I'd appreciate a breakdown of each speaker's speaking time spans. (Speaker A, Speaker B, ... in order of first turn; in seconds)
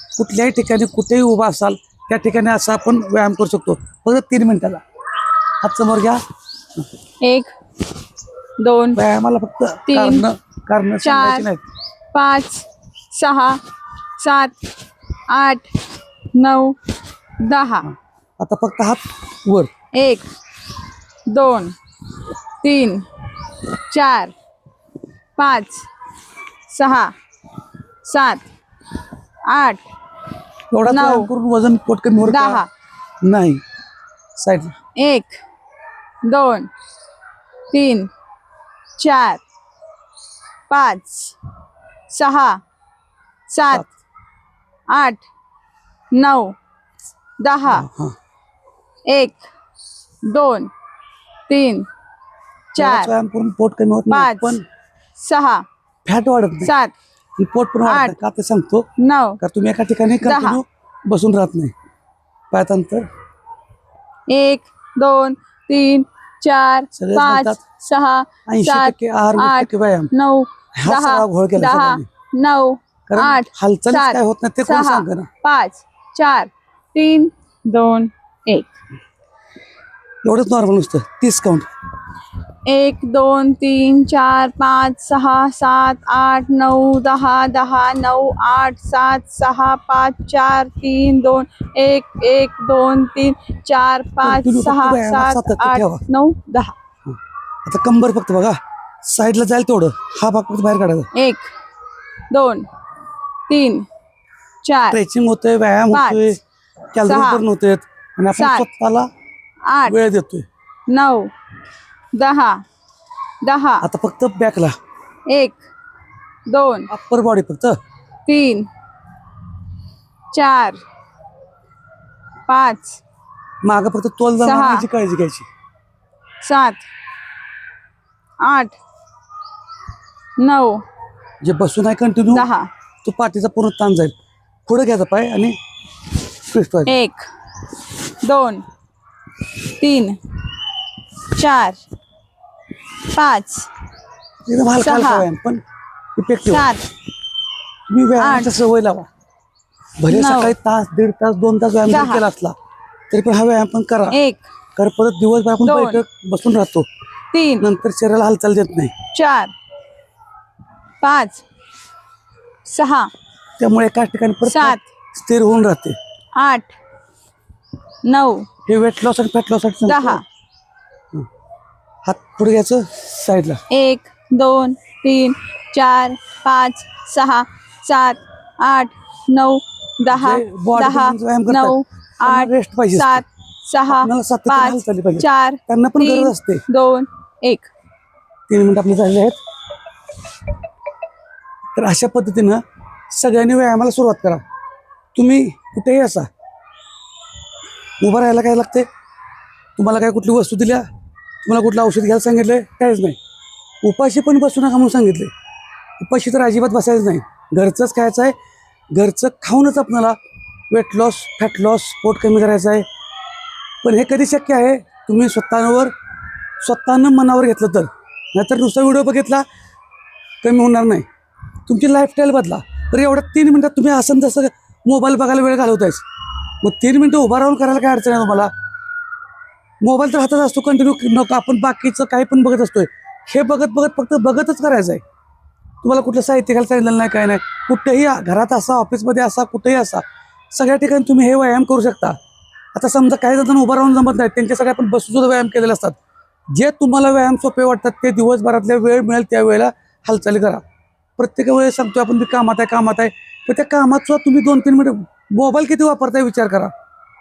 Speaker A: 0.2-4.8, 5.6-6.2, 9.0-11.6, 17.9-19.7, 30.7-32.6, 33.2-33.6, 34.4-34.8, 47.7-48.1, 52.8-54.6, 56.0-56.7, 57.4-58.9, 59.4-61.7, 62.5-63.1, 66.9-67.6, 68.5-70.1, 70.8-72.1, 73.1-75.3, 80.2-81.7, 94.2-96.0, 97.1-101.1, 104.9-106.4, 106.9-109.1, 109.8-110.5, 113.8-114.7, 116.9-117.8, 123.6-125.5, 131.4-132.5, 133.0-134.1, 134.7-135.6, 136.5-136.9, 144.5-145.6, 146.2-146.7, 147.9-149.1, 150.0-152.5, 153.1-154.2, 154.8-156.9, 157.6-158.9, 163.6-166.0, 168.7-170.2, 172.1-173.6, 180.1-183.2, 183.9-186.6, 188.5-189.4, 191.8-194.4, 195.2-196.3, 198.0-198.9, 199.8-200.8, 201.4-203.2, 203.8-205.3, 206.0-208.3, 208.9-210.2, 210.7-212.9, 213.8-215.9, 216.6-219.4, 220.4-221.1, 221.7-226.1, 226.6-228.5, 229.8-235.0, 235.8-242.2, 242.8-246.0, 246.5-250.6, 251.2-256.7
Speaker B: 7.2-7.5, 8.6-9.0, 9.9-10.2, 11.0-11.5, 12.1-13.6, 14.2-14.7, 15.3-15.8, 16.3-16.8, 17.4-17.9, 19.9-20.3, 21.3-21.7, 22.6-23.1, 23.9-24.3, 25.4-25.9, 26.7-27.1, 28.0-28.5, 29.5-29.9, 30.9-31.3, 32.2-32.7, 35.0-35.4, 36.2-36.7, 37.7-38.1, 39.0-39.4, 40.7-41.4, 42.1-42.6, 43.5-43.8, 44.9-45.2, 46.1-46.6, 47.4-47.9, 49.1-49.5, 50.2-50.7, 51.5-51.9, 52.7-53.1, 54.1-54.6, 55.2-55.7, 56.6-56.9, 57.9-58.1, 59.0-59.4, 60.2-60.6, 64.3-78.7, 82.7-96.8, 101.1-101.5, 102.3-102.7, 103.5-103.9, 104.6-105.0, 105.9-106.3, 107.1-107.4, 108.4-108.7, 109.7-110.0, 110.9-111.3, 112.1-112.7, 113.4-113.8, 115.3-115.6, 116.5-116.9, 118.3-118.7, 120.3-120.8, 122.5-123.0, 124.4-124.9, 126.4-126.8, 128.4-128.8, 130.4-130.8, 132.3-132.7, 136.9-137.3, 138.2-138.6, 139.8-140.2, 141.2-141.8, 143.1-143.7, 144.8-145.3, 146.5-146.8, 148.2-148.5, 150.1-150.5, 151.9-152.2, 154.1-154.5, 155.6-156.0, 157.3-157.7, 159.1-159.5, 161.0-161.4, 162.7-163.1, 164.4-164.9, 166.3-166.8, 168.0-168.5, 169.9-170.2, 173.7-187.7